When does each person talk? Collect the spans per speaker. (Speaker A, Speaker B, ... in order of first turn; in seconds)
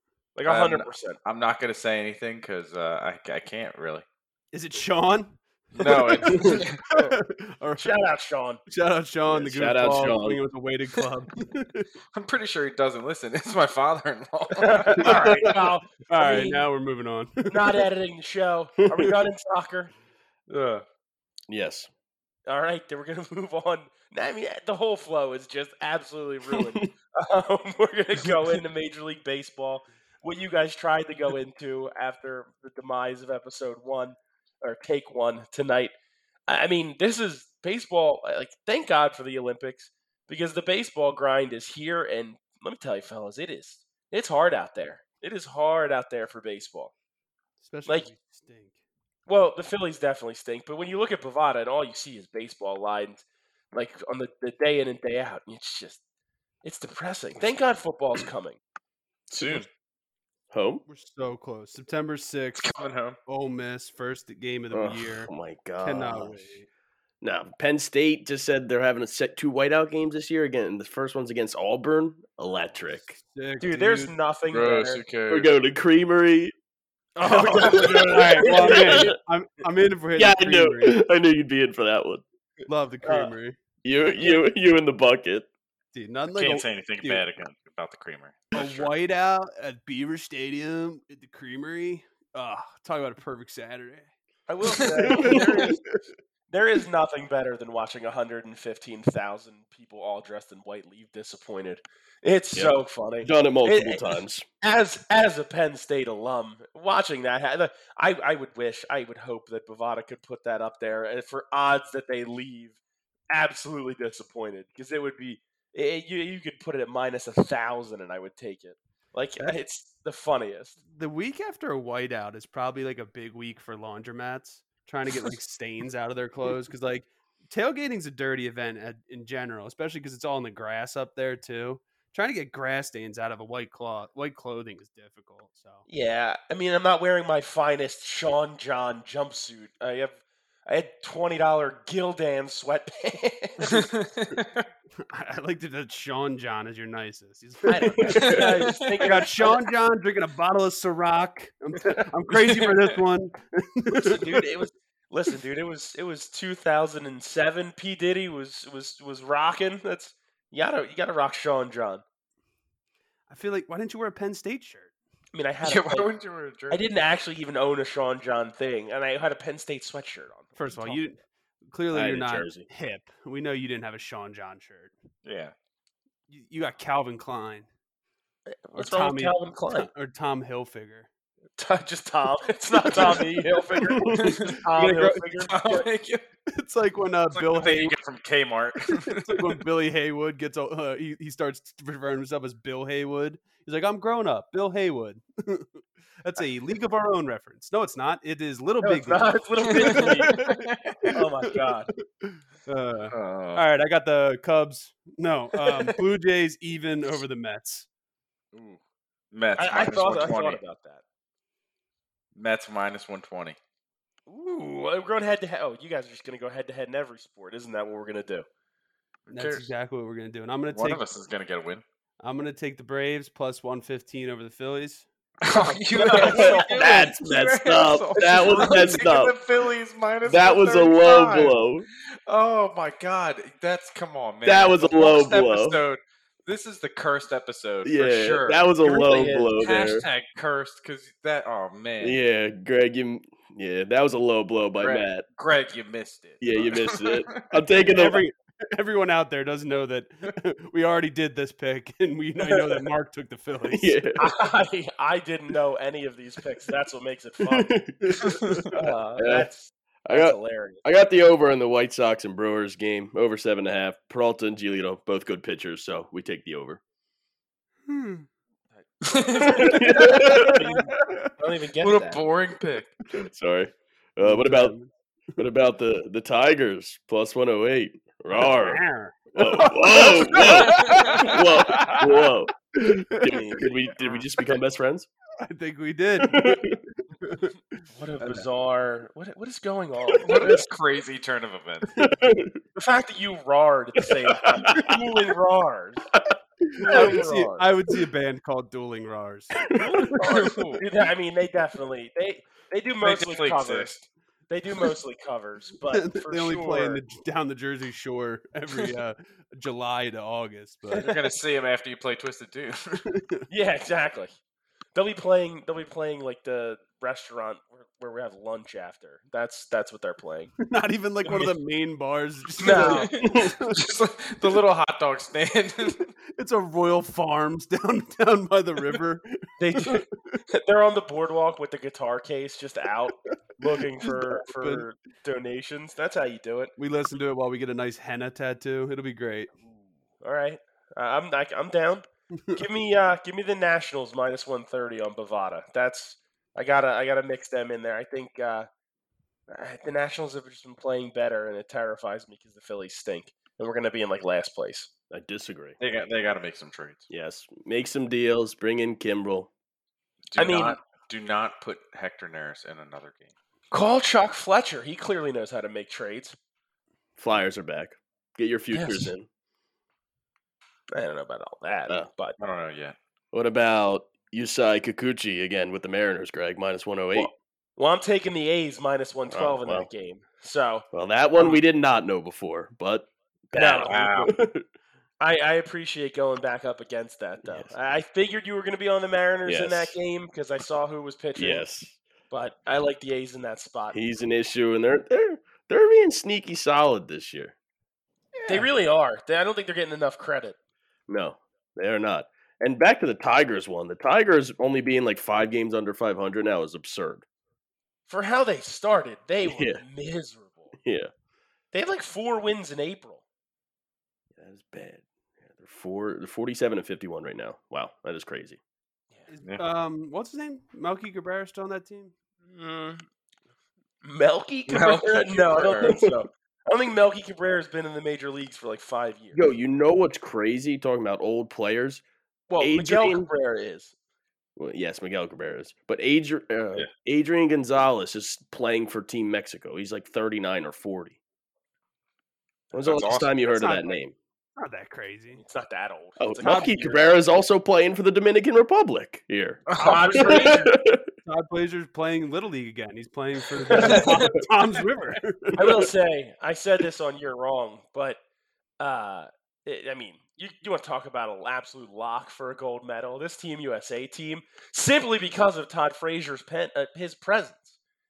Speaker A: 0.4-1.2, 7.8-8.6, 14.6-16.6, 17.5-19.9, 22.5-35.9, 36.5-46.9, 49.3-56.0, 56.6-58.6, 59.4-59.7, 73.6-75.0, 77.2-79.0, 83.0-83.3, 94.5-95.8, 96.5-112.8, 113.3-120.8, 135.9-143.9, 147.7-149.7, 154.0-162.0, 165.3-166.1, 166.7-171.0, 178.5-179.9, 181.6-185.9, 198.8-200.5, 201.1-201.9, 209.6-211.0, 214.3-218.5, 225.7-226.8, 228.2-229.0, 238.8-239.6, 254.2-257.8, 258.7-260.8, 268.8-272.3, 287.9-290.6, 292.8-296.1, 296.8-297.7, 300.0-303.9, 304.5-307.0, 313.5-314.3, 314.9-320.5, 321.3-321.5, 322.6-323.1, 329.6-336.7, 340.2-348.7, 349.5-354.9, 360.4-360.8, 363.7-366.4, 368.7-369.1, 370.9-372.4, 377.1-380.9, 383.5-384.0, 385.2-391.7, 392.3-394.0, 398.5-400.6, 408.1-410.8, 411.7-413.2, 422.5-423.1, 424.0-429.4, 432.5-433.9, 445.4-447.1, 449.8-450.7, 453.7-454.3, 455.6-458.2, 458.8-467.8
Speaker B: 0.5-4.0, 5.8-6.8, 12.1-15.6, 20.5-20.9, 59.3-59.7, 62.5-63.2, 74.5-75.5, 86.3-88.9, 143.7-144.7, 148.2-149.1, 152.3-152.9, 165.6-166.8, 175.2-175.5, 184.1-186.2, 187.3-189.6, 199.8-201.0, 203.1-203.7, 208.5-208.8, 209.3-210.6, 212.3-213.6, 219.3-219.7, 220.7-221.8, 225.4-231.6, 232.1-238.7, 239.6-242.2, 244.8-247.4, 258.3-258.6, 269.1-270.3, 271.8-272.9, 280.9-281.2, 290.2-291.9, 300.0-300.8, 303.0-304.1, 310.9-313.0, 322.7-326.1, 355.8-357.1, 360.3-363.3, 372.4-372.9, 383.8-384.3, 424.7-426.0, 442.8-443.4, 449.7-450.1
Speaker C: 4.5-8.0, 8.7-11.9, 15.0-15.5, 16.1-17.8, 47.6-48.8, 60.9-62.7, 63.3-66.7, 72.9-74.2, 77.2-81.0, 82.7-83.6, 85.9-87.2, 88.5-94.1, 95.1-95.7, 120.9-135.9, 145.1-148.4, 149.0-154.4, 163.3-164.9, 170.6-174.9, 176.3-177.7, 178.8-181.1, 184.7-185.2, 186.5-187.9, 188.9-207.9, 219.3-221.0, 222.2-225.1, 247.8-254.0, 258.1-258.7, 267.9-268.3, 270.0-271.3, 274.2-275.4, 278.3-283.6, 285.4-288.5, 296.8-300.1, 305.9-311.1, 313.1-313.5, 320.6-323.8, 326.3-330.4, 334.0-334.9, 336.8-339.5, 419.3-422.1, 443.6-443.9, 444.6-445.4, 449.8-450.6, 451.2-455.9
Speaker D: 9.3-10.4, 21.5-21.9, 26.5-26.9, 60.5-60.8, 64.7-66.5, 67.2-73.2, 75.3-76.5, 77.5-79.2, 80.2-82.2, 83.8-85.5, 95.1-95.7, 102.5-104.5, 148.0-148.6, 171.9-172.7, 183.9-184.4, 226.1-229.4, 230.2-231.9, 234.4-235.8, 237.8-240.1, 242.0-245.3, 246.4-248.2, 253.7-254.3, 257.4-258.4, 259.2-259.5, 260.1-266.8, 269.4-270.7, 273.1-274.8, 275.4-278.8, 279.3-285.1, 286.2-286.8, 290.0-290.6, 292.0-292.6, 294.4-294.9, 296.9-297.2, 299.6-300.4, 355.1-355.8, 357.1-359.5, 367.2-369.3, 373.3-377.3, 379.3-379.9, 380.9-384.6, 387.4-387.8, 389.4-390.0, 391.4-392.0, 393.9-397.5, 398.4-398.7, 401.1-407.2, 409.4-409.8, 410.8-411.1, 414.4-418.6, 425.8-426.1, 429.3-432.0, 432.6-433.3, 434.6-441.2, 442.7-444.1, 446.2-451.1